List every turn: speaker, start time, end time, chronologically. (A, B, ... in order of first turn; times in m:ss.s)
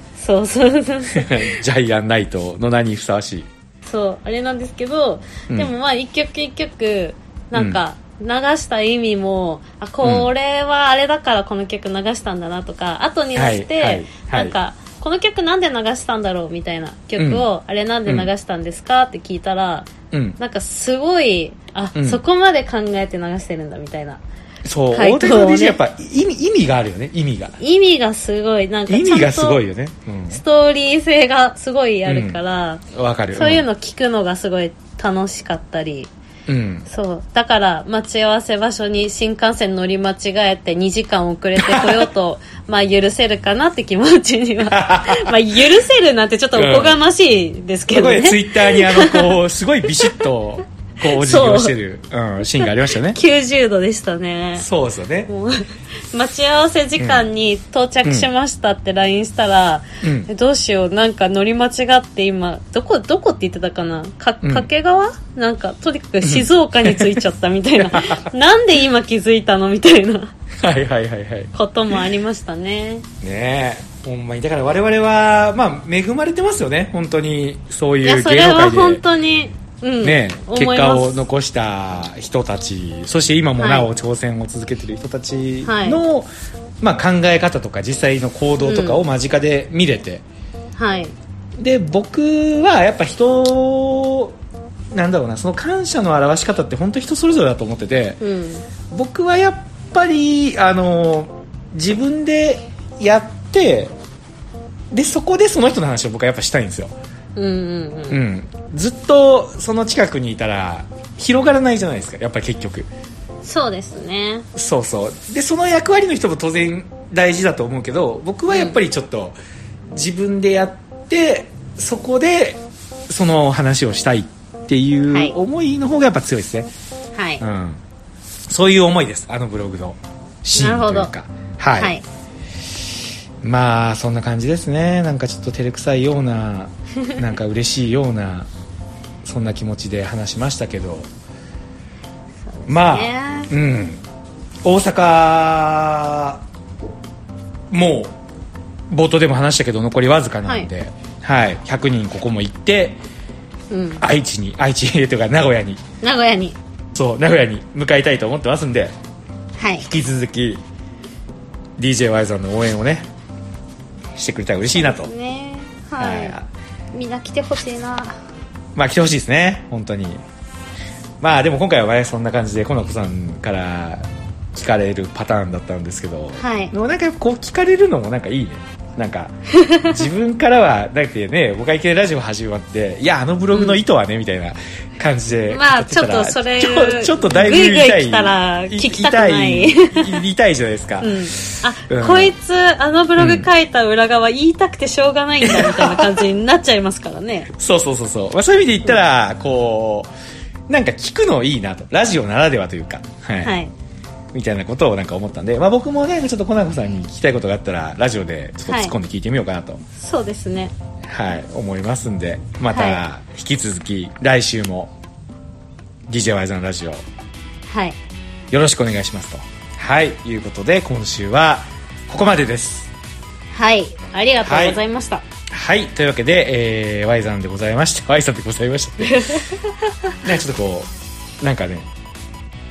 0:00.2-0:01.5 A
0:01.1-0:03.5 B
0:03.8-0:24.2 A
0:07.5-0:07.8 B
0:10.0-0:10.3 B
0:13.4-0:14.6 B
0:17.2-0:17.4 B
0:18.0-0:18.3 B
0:20.1-0:20.4 B
0:21.9-0:22.2 B
0:24.6-0:27.6 B
0:24.9-0:25.8 A
0:27.6-0:29.6 A
0:28.9-0:30.4 B
0:30.3-0:32.8 A
0:32.0-0:32.4 B
0:32.9-0:33.6 B
0:33.3-0:36.1 A
0:36.5-0:36.9 B
0:36.9-0:50.3 A
0:41.6-0:42.1 B
0:44.7-0:45.4 B
0:46.5-0:47.0 B
0:47.9-0:53.2 B
0:51.0-0:51.7 A
0:52.6-0:54.7 A
0:54.6-0:55.3 B
0:55.3-1:10.3 A
0:57.0-0:57.3 B
1:00.0-1:00.3 B
1:04.4-1:04.7 B
1:06.2-1:07.1 B
1:07.8-1:08.3 B
1:10.6-1:11.5 B
1:11.5-1:13.1 A
1:13.2-1:19.0 B
1:18.0-1:21.2 A
1:20.0-1:26.3 B
1:23.6-1:23.9 A
1:25.6-1:26.0 A
1:26.8-1:30.2 B
1:28.6-1:29.0 A
1:30.8-1:31.1 A
1:31.6-1:34.4 B
1:34.9-1:38.2 B
1:38.2-1:38.6 A
1:38.9-1:43.9 B
1:44.9-1:46.9 B
1:47.4-1:48.2 A
1:48.1-1:52.9 B
1:53.4-1:54.5 A
1:54.5-1:59.4 B
1:58.5-1:58.8 A
1:59.9-2:06.7 B
2:05.1-2:05.4 A
2:07.1-2:07.4 A
2:07.4-2:07.8 B
2:08.5-2:11.9 B
2:10.6-2:11.1 A
2:11.7-2:12.0 A
2:13.4-2:18.5 B
2:19.2-2:21.1 B
2:22.4-2:23.5 A
2:22.7-2:24.0 B
2:24.6-2:26.4 B
2:27.7-2:28.1 B
2:28.9-2:33.0 B
2:30.4-2:30.7 A
2:33.7-2:34.0 A
2:34.0-2:35.8 B
2:36.0-2:36.6 A
2:36.9-2:38.9 B
2:39.6-2:39.9 A
2:39.8-2:40.6 B
2:41.8-2:43.1 B
2:44.2-2:45.1 B
2:44.7-2:46.4 A
2:46.0-2:46.5 B
2:46.9-2:48.2 A
2:48.8-2:50.2 B
2:51.2-3:12.3 B
2:56.4-2:56.7 A
2:59.6-3:00.0 A
3:03.5-3:03.8 A
3:05.5-3:10.2 A
3:11.0-3:17.5 A
3:13.2-3:13.5 B
3:15.4-3:16.2 B
3:17.6-3:20.1 B
3:20.7-3:23.5 B
3:23.4-3:23.7 A
3:24.3-3:29.8 B
3:28.6-3:28.9 A
3:29.9-3:30.8 A
3:31.1-3:34.9 B
3:32.7-3:33.0 A
3:36.1-3:37.0 B
3:37.7-3:38.0 A
3:38.5-3:42.9 B
3:43.5-3:45.2 A
3:44.4-3:44.8 B
3:45.5-3:49.4 B
3:49.0-3:50.2 A
3:50.2-3:50.9 B
3:51.4-3:51.9 B